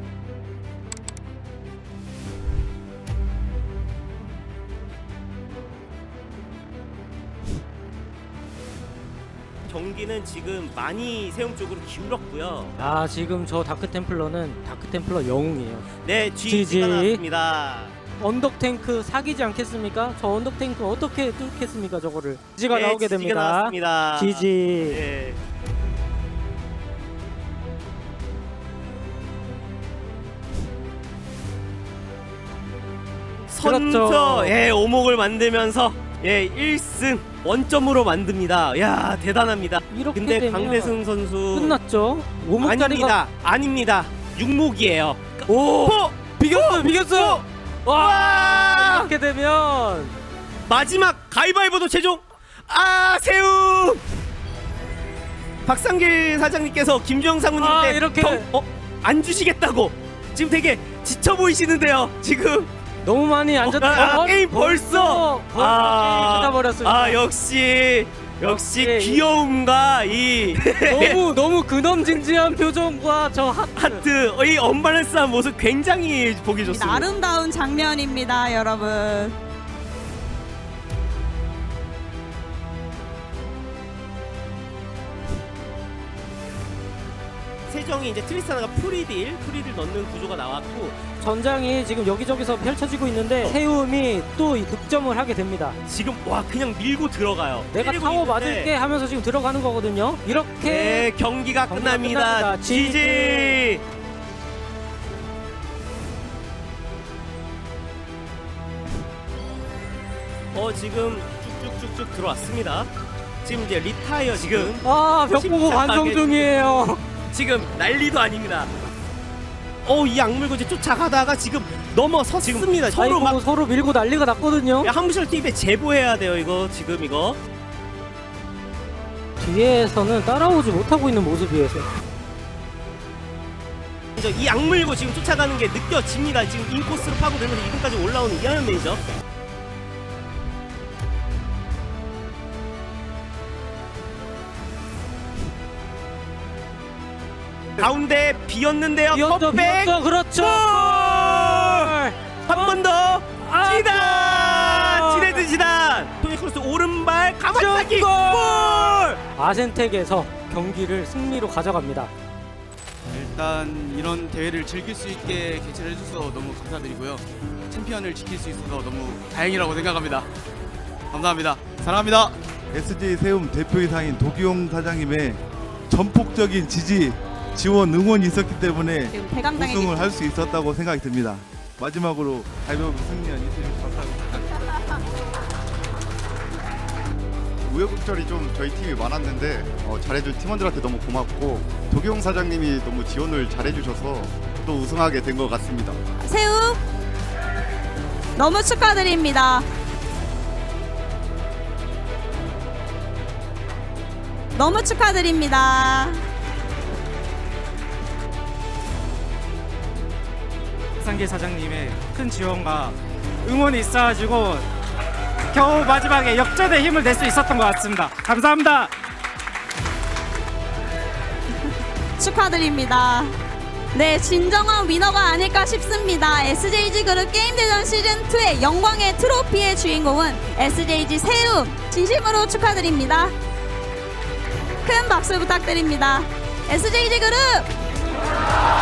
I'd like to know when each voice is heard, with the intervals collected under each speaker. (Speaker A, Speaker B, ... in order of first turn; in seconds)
Speaker A: 9.7-12.8, 16.0-18.0, 22.7-25.4, 33.5-41.8, 42.6-49.1, 50.7-54.0, 55.6-62.7, 63.6-71.2, 73.8-77.1, 87.7-91.0, 95.9-98.7, 100.6-103.8, 110.5-112.9, 113.4-116.5, 117.3-118.7, 119.8-123.4, 124.8-127.4, 134.2-139.0, 147.8-151.9, 152.5-159.2
Speaker B: 12.8-15.9, 16.4-17.2, 18.2-25.0, 33.6-34.5, 39.9-41.0, 41.5-43.2, 45.5-50.1, 57.6-58.5, 63.0-67.2, 68.5-69.2, 70.8-74.0, 91.2-95.8, 97.7-101.1, 101.7-103.6, 114.5-117.0, 122.5-124.9, 129.4-131.9, 149.1-152.7, 153.4-155.4, 157.5-162.1
Speaker C: 76.6-79.3, 179.1-180.0, 196.2-196.8, 198.4-199.7, 204.6-206.2, 222.2-223.3, 223.9-233.3, 234.8-237.7
Speaker D: 163.1-170.3, 171.1-172.3
Speaker E: 172.7-184.6
Speaker F: 187.6-196.0
Speaker G: 211.0-214.7, 215.5-218.9